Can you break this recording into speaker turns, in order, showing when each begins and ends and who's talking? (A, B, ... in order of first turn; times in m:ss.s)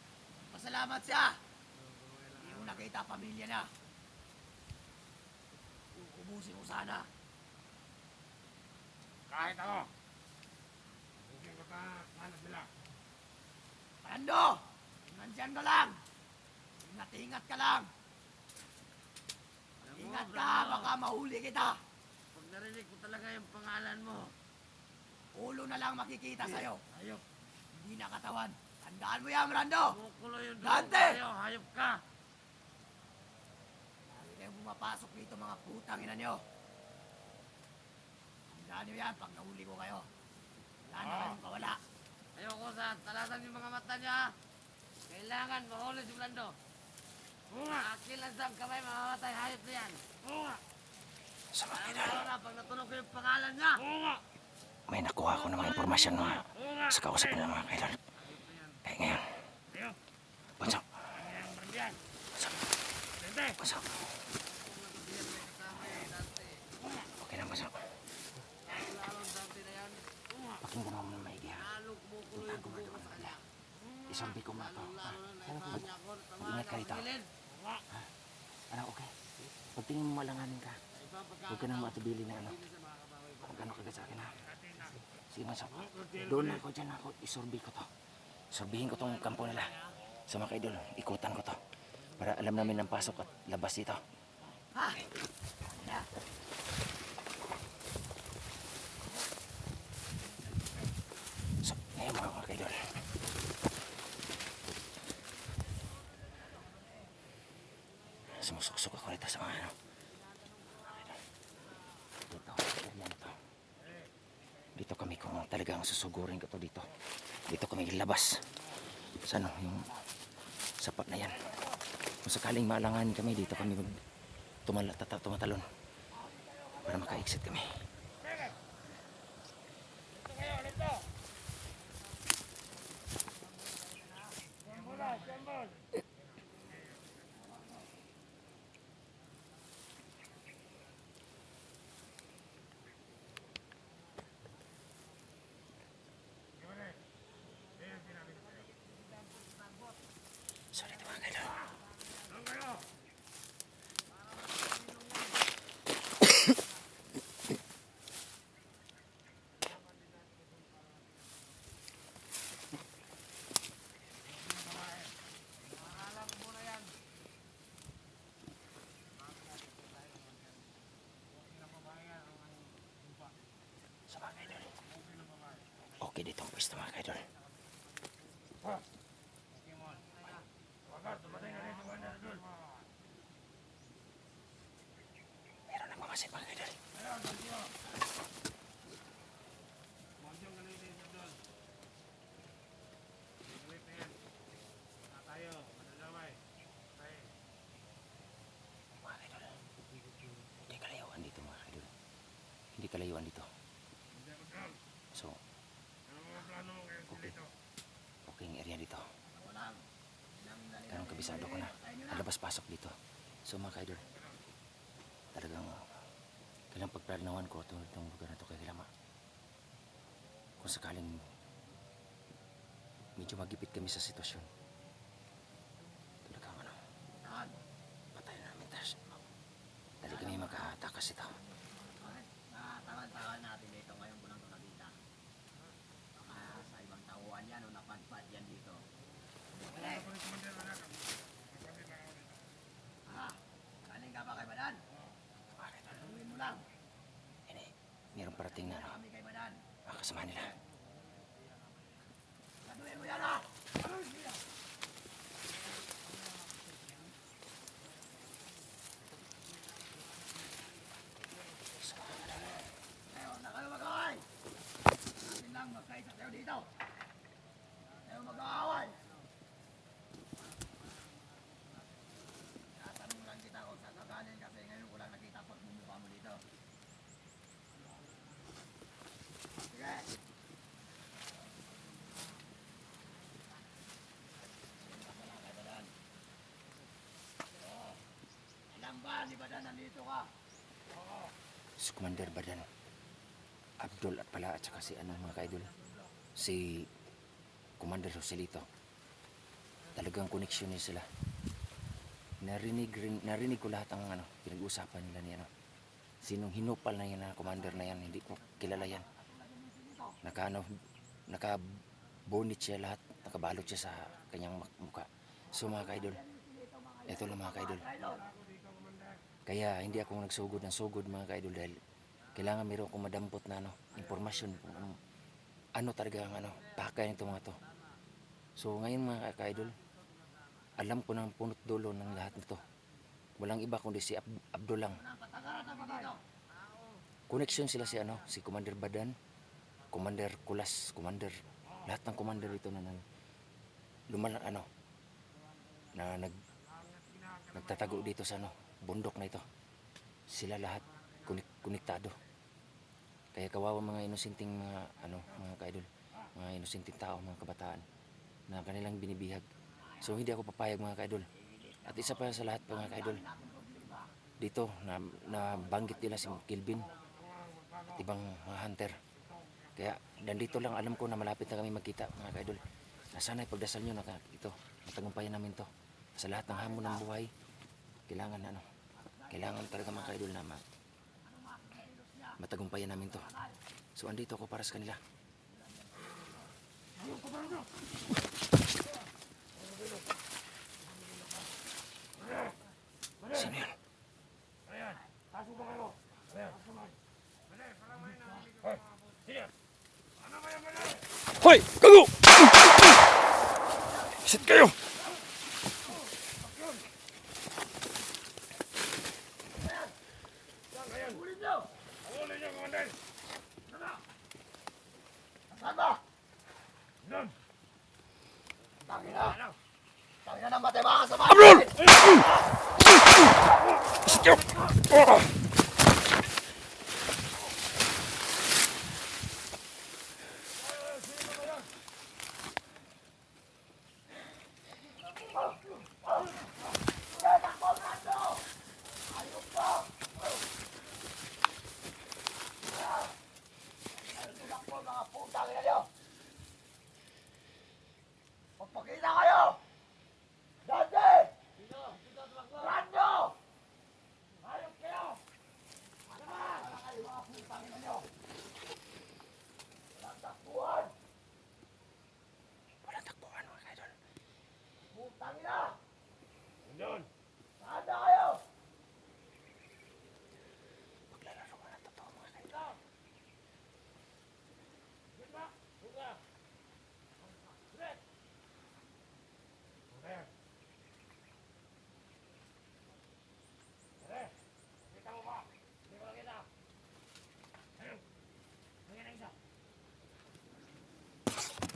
0:00.4-0:01.4 A
0:01.7-0:02.9 B
0:02.4-0:03.7 A
0:05.9-0:07.1 A
0:09.3-0:09.9 C
0:11.2-0:12.7 C
0:14.0-0:16.0 A
0:16.8-0:17.9 A
0:19.8-0:20.9 B
0:19.9-0:21.8 A
0:22.3-0:24.3 B
0:25.3-0:26.8 A
0:26.9-0:27.2 B
0:27.7-0:30.0 A
0:29.9-0:32.0 B
0:30.6-0:31.2 A
0:34.1-0:36.4 A
0:38.5-0:40.1 A
0:40.8-0:41.8 A
0:41.0-0:41.4 C
0:42.3-0:44.3 B
0:45.1-0:46.6 B
0:47.5-0:47.8 C
0:47.7-0:50.0 B
0:50.2-0:50.6 C
0:51.5-0:52.3 D
0:51.7-0:53.8 B
0:53.8-0:54.2 C
0:54.9-0:58.0 D
0:55.5-0:57.4 C
0:58.1-0:58.8 B
0:58.8-0:59.4 D
0:59.7-1:00.0 C
1:00.6-1:01.0 D
1:01.1-1:02.0 C
1:02.3-1:02.6 D
1:03.2-1:03.6 C
1:03.6-1:04.0 D
1:04.3-1:06.7 B
1:07.0-1:07.9 D
1:08.6-1:10.2 B
1:10.6-1:11.6 D
1:11.5-1:13.4 B
1:12.3-1:13.4 D
1:14.1-1:17.1 D
1:14.5-1:17.3 B
1:17.5-1:17.8 C
1:18.7-1:20.8 D
1:20.9-1:24.3 B
1:21.5-1:22.6 D
1:23.4-1:24.4 D
1:24.4-1:25.0 C
1:25.3-1:27.9 D
1:25.8-1:26.6 C
1:28.5-1:29.7 D
1:28.9-1:30.0 B
1:30.3-1:31.6 D
1:32.1-1:34.0 D
1:32.2-1:33.2 C
1:34.7-1:35.0 A
1:35.7-1:36.1 A
1:41.6-1:43.0 D
1:48.3-1:49.7 D
1:50.1-1:51.3 B
1:52.3-1:53.4 D
1:54.7-1:56.9 D
1:57.4-1:58.5 D
1:59.1-1:59.9 D
2:00.8-2:01.5 D
2:02.2-2:04.0 D
2:04.6-2:05.7 D
2:06.2-2:07.2 A
2:06.8-2:07.8 D
2:10.4-2:11.0 C
2:14.6-2:15.8 C
2:26.6-2:27.0 C
2:27.8-2:28.5 C
2:30.7-2:31.6 D
2:32.3-2:32.8 C
2:44.3-2:45.0 C
2:45.7-2:46.9 B
2:49.8-2:50.3 B
2:51.7-2:52.4 C
2:54.1-2:54.7 D
2:54.9-2:55.6 C
2:56.0-2:57.3 D
2:59.7-3:00.4 B
3:00.8-3:02.7 C
3:05.7-3:06.8 D
3:06.9-3:07.7 C
3:10.2-3:11.4 C
3:13.5-3:14.2 C
3:15.1-3:16.4 C
3:17.0-3:17.3 C
3:18.9-3:19.6 D
3:20.6-3:21.9 D
3:22.7-3:23.5 D
3:24.1-3:24.8 C
3:25.1-3:25.4 D
3:26.1-3:27.5 C
3:27.1-3:27.4 D
3:28.2-3:29.0 D
3:29.2-3:32.2 A
3:30.9-3:34.1 D
3:34.0-3:34.4 C
3:35.3-3:35.9 D
3:36.7-3:38.9 D
3:40.6-3:41.2 D
3:43.2-3:44.5 D
3:46.2-3:46.8 D
3:47.2-3:47.6 A
3:48.1-3:49.2 D
3:50.0-3:51.4 D
3:50.0-3:50.6 A
3:51.5-3:55.0 A
3:56.2-3:58.8 A
3:59.6-4:02.4 C
3:59.6-4:00.1 A
4:03.1-4:04.8 A
4:05.6-4:06.1 D
4:06.0-4:06.6 A
4:07.5-4:09.0 D
4:08.1-4:09.6 A
4:09.8-4:10.6 D
4:12.6-4:13.5 A
4:22.4-4:24.3 A
4:25.2-4:26.7 A
4:28.0-4:29.0 A
4:28.0-4:29.2 B
4:30.7-4:31.6 B
4:32.7-4:36.4 A
4:39.6-4:40.1 A
4:44.8-4:45.9 A
4:48.7-4:50.3 A
4:51.8-4:52.7 D
4:53.8-4:55.7 D
4:56.4-4:56.9 D
4:57.8-4:58.7 D
4:59.9-5:01.1 D
5:02.4-5:05.5 D
5:06.2-5:09.0 D
5:08.5-5:10.2 A
5:10.2-5:10.7 D
5:11.3-5:16.2 D
5:15.5-5:18.2 A
5:17.1-5:17.9 D
5:18.1-5:19.3 C
5:19.4-5:21.8 D
5:22.3-5:25.0 D
5:24.0-5:24.6 C
5:25.7-5:27.6 D
5:27.6-5:27.9 B
5:28.6-5:29.8 D
5:29.8-5:30.7 B
5:30.8-5:32.6 D
5:33.4-5:35.0 D
5:34.9-5:36.2 A
5:36.5-5:38.2 B
5:37.3-5:39.2 D
5:39.9-5:43.0 D
5:44.1-5:44.7 D
5:45.9-5:46.3 D
5:46.5-5:48.1 C
5:47.5-5:49.5 D
5:50.3-5:52.2 D
5:51.0-5:51.4 C
5:53.3-5:57.8 D
5:58.5-5:59.4 D
6:00.0-6:01.3 D
6:01.4-6:04.1 A
6:01.8-6:03.2 D
6:04.4-6:06.9 D
6:05.4-6:06.3 A
6:07.0-6:08.0 C
6:07.9-6:09.0 D
6:09.2-6:09.8 C
6:09.8-6:17.3 D
6:16.5-6:17.0 A
6:18.1-6:18.6 D
6:19.0-6:20.1 A
6:19.3-6:20.6 D
6:21.2-6:22.4 A
6:22.4-6:23.3 D
6:23.1-6:23.6 A
6:24.0-6:25.0 D
6:25.5-6:26.4 A
6:27.1-6:27.6 C
6:33.3-6:33.7 D
6:34.7-6:36.9 C
6:37.5-6:39.5 C
6:40.2-6:41.0 C
6:41.4-6:42.7 D
6:44.2-6:44.8 D
6:49.6-6:49.9 A
6:50.7-6:51.2 C
6:51.0-6:51.7 A
6:52.0-6:53.0 C
6:55.5-6:56.0 A
6:57.0-6:57.3 C
6:58.9-6:59.4 A
6:58.9-6:59.5 C
7:00.2-7:01.9 A
7:17.1-7:18.5 A
7:19.0-7:20.1 A
7:24.0-7:25.9 A
7:28.6-7:29.6 A
7:30.6-7:31.3 A
7:31.6-7:32.6 B
7:32.6-7:33.4 A
7:36.1-7:38.1 A
7:39.9-7:40.9 A
7:42.8-7:43.9 D
7:44.9-7:45.8 A
7:46.6-7:47.1 C
7:47.6-7:48.4 A
7:51.1-7:52.7 D
7:55.3-7:56.2 C
7:59.9-8:00.3 C
8:04.9-8:05.4 C